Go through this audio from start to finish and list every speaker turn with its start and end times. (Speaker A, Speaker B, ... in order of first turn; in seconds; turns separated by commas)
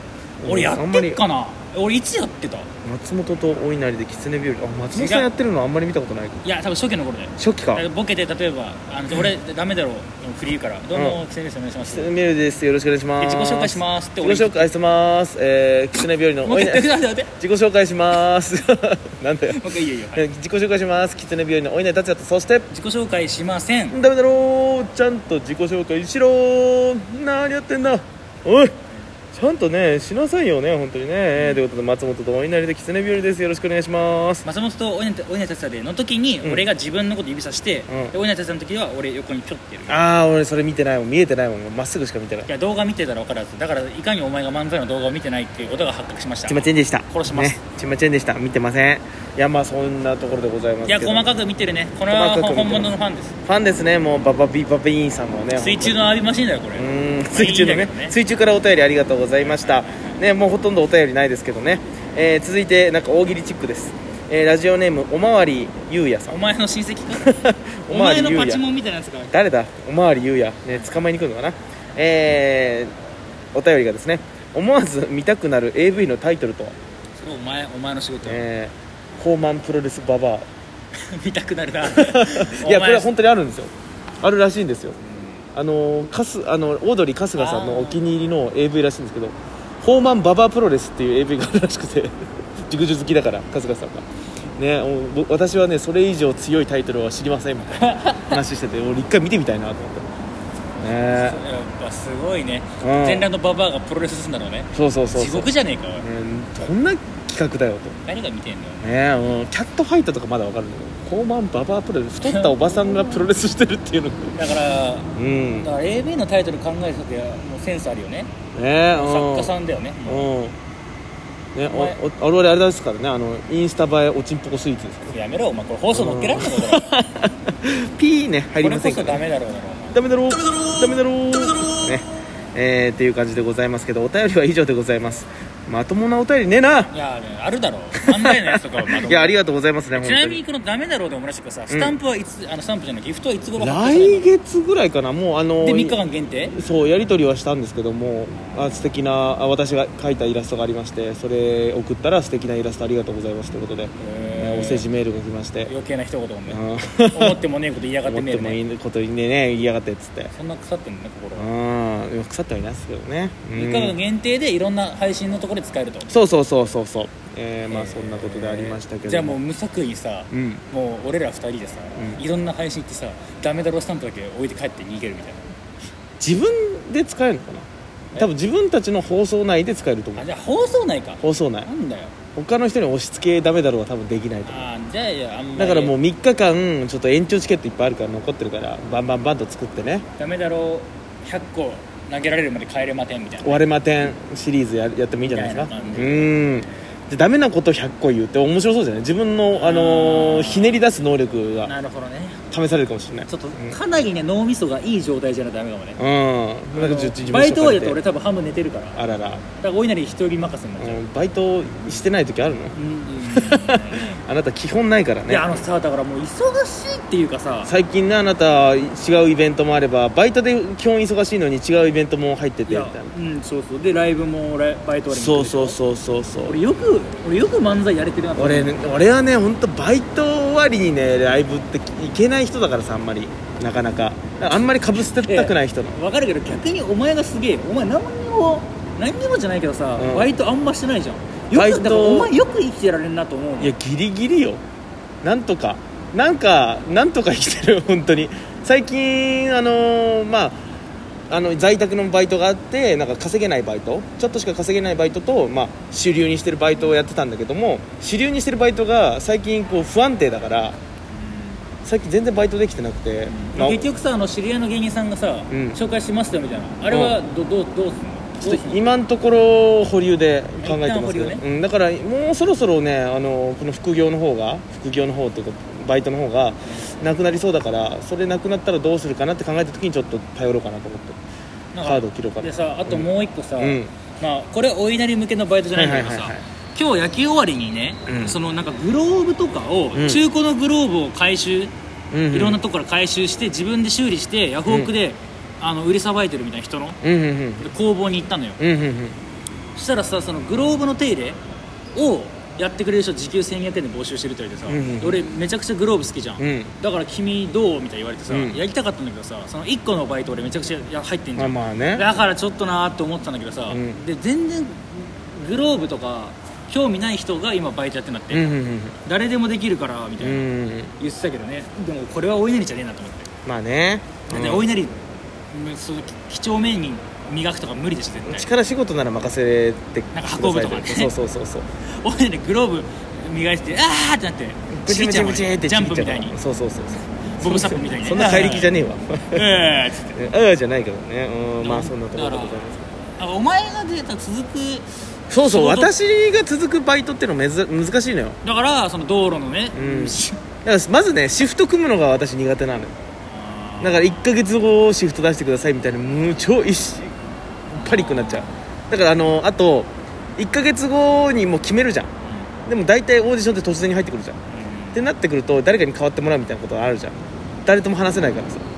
Speaker A: 0.4-1.2, Speaker B: 0.4-2.7, Speaker A: 2.8-6.4, Speaker B: 4.9-5.3, Speaker B: 6.4-12.1, Speaker A: 7.4-7.8, Speaker A: 10.9-11.2, Speaker A: 11.8-22.7, Speaker B: 13.2-14.7, Speaker B: 16.4-17.3, Speaker B: 19.5-20.2, Speaker B: 22.7-24.0, Speaker A: 23.9-28.7, Speaker A: 29.3-34.4, Speaker B: 31.3-31.6, Speaker B: 34.4-40.0, Speaker A: 37.9-38.1, Speaker A: 39.9-42.5, Speaker B: 42.5-47.6, Speaker A: 46.5-51.3, Speaker B: 50.9-53.3, Speaker A: 52.1-56.0, Speaker B: 55.5-58.2, Speaker A: 56.8-66.4, Speaker B: 59.4-60.2, Speaker B: 66.3-69.3, Speaker A: 67.1-68.6, Speaker A: 69.3-72.9, Speaker A: 73.5-76.7, Speaker B: 77.2-78.4, Speaker A: 78.2-80.4, Speaker B: 81.1-83.1, Speaker A: 81.8-85.0, Speaker A: 85.5-92.1, Speaker B: 87.3-88.0, Speaker A: 92.6-100.0, Speaker B: 97.8-98.4, Speaker A: 100.8-101.4, Speaker B: 100.8-106.1, Speaker A: 102.8-103.3, Speaker A: 104.7-108.0, Speaker B: 108.0-109.5, Speaker A: 108.8-114.4, Speaker B: 112.2-113.3, Speaker B: 114.3-118.3, Speaker A: 115.2-115.7, Speaker A: 118.5-120.5, Speaker B: 118.9-120.3, Speaker A: 121.5-125.1, Speaker B: 121.7-122.0, Speaker B: 125.1-126.9, Speaker A: 125.9-129.2, Speaker B: 128.6-130.0, Speaker A: 129.9-136.9, Speaker B: 136.9-144.3, Speaker A: 138.0-140.4, Speaker A: 141.7-141.9, Speaker A: 143.6-146.0, Speaker B: 145.6-146.5, Speaker A: 146.5-155.7, Speaker B: 154.0-154.9, Speaker B: 155.7-158.6, Speaker A: 156.5-157.4, Speaker A: 158.0-160.3, Speaker B: 160.3-161.5, Speaker A: 161.3-163.9, Speaker B: 163.5-166.1, Speaker A: 166.1-169.4, Speaker B: 167.7-175.5, Speaker A: 170.3-170.6, Speaker A: 172.0-172.2, Speaker A: 176.2-180.2, Speaker B: 180.2-182.1, Speaker A: 181.2-181.7, Speaker A: 182.3-184.6, Speaker B: 184.5-185.9, Speaker A: 185.6-190.0, Speaker B: 190.2-193.6, Speaker A: 193.4-201.7, Speaker B: 195.2-196.8, Speaker B: 199.5-200.8, Speaker B: 201.7-202.4, Speaker A: 202.5-203.8, Speaker B: 203.3-206.0, Speaker A: 206.0-208.0, Speaker B: 206.7-211.0, Speaker A: 208.9-209.4, Speaker A: 210.8-215.6, Speaker B: 212.7-214.2, Speaker B: 215.3-217.7, Speaker A: 217.7-223.1, Speaker B: 222.7-225.8, Speaker A: 225.1-226.6, Speaker B: 226.4-228.8, Speaker A: 228.3-236.0, Speaker B: 235.2-243.7, Speaker A: 240.0-240.3, Speaker A: 241.5-242.3, Speaker A: 243.6-244.6, Speaker A: 245.2-250.6, Speaker A: 251.3-260.8, Speaker B: 261.1-261.6, Speaker A: 261.8-263.8, Speaker B: 263.3-268.9, Speaker A: 265.5-265.8, Speaker A: 266.9-267.2, Speaker A: 268.4-281.2, Speaker B: 270.6-271.4, Speaker B: 281.7-291.7, Speaker A: 281.8-283.9, Speaker A: 285.7-286.4, Speaker A: 288.1-288.4, Speaker A: 289.9-290.2, Speaker A: 292.1-292.6, Speaker B: 292.3-297.0, Speaker A: 294.7-294.9, Speaker A: 297.0-297.7, Speaker B: 297.6-298.6, Speaker A: 298.6-299.2, Speaker B: 299.7-301.4, Speaker B: 301.9-318.5, Speaker A: 304.7-305.2, Speaker A: 306.4-306.7, Speaker A: 308.3-308.6, Speaker A: 311.4-312.1, Speaker A: 313.7-314.0, Speaker A: 318.3-319.0, Speaker B: 319.0-320.5, Speaker A: 320.2-320.9, Speaker B: 321.0-323.3, Speaker A: 323.4-324.7, Speaker B: 324.3-324.9, Speaker B: 325.5-328.5, Speaker A: 328.2-331.7, Speaker B: 330.1-331.1, Speaker B: 331.9-336.4, Speaker A: 334.7-339.5, Speaker B: 337.4-338.8, Speaker B: 339.3-340.3, Speaker A: 340.1-342.9, Speaker B: 341.6-342.6, Speaker B: 343.2-345.9, Speaker A: 345.3-348.4, Speaker B: 348.4-350.4, Speaker A: 349.7-352.9, Speaker B: 353.3-354.2, Speaker A: 353.8-357.1, Speaker A: 357.7-362.1, Speaker B: 357.7-358.6, Speaker B: 362.2-362.5, Speaker A: 362.6-364.4, Speaker B: 364.5-365.1, Speaker A: 364.9-368.6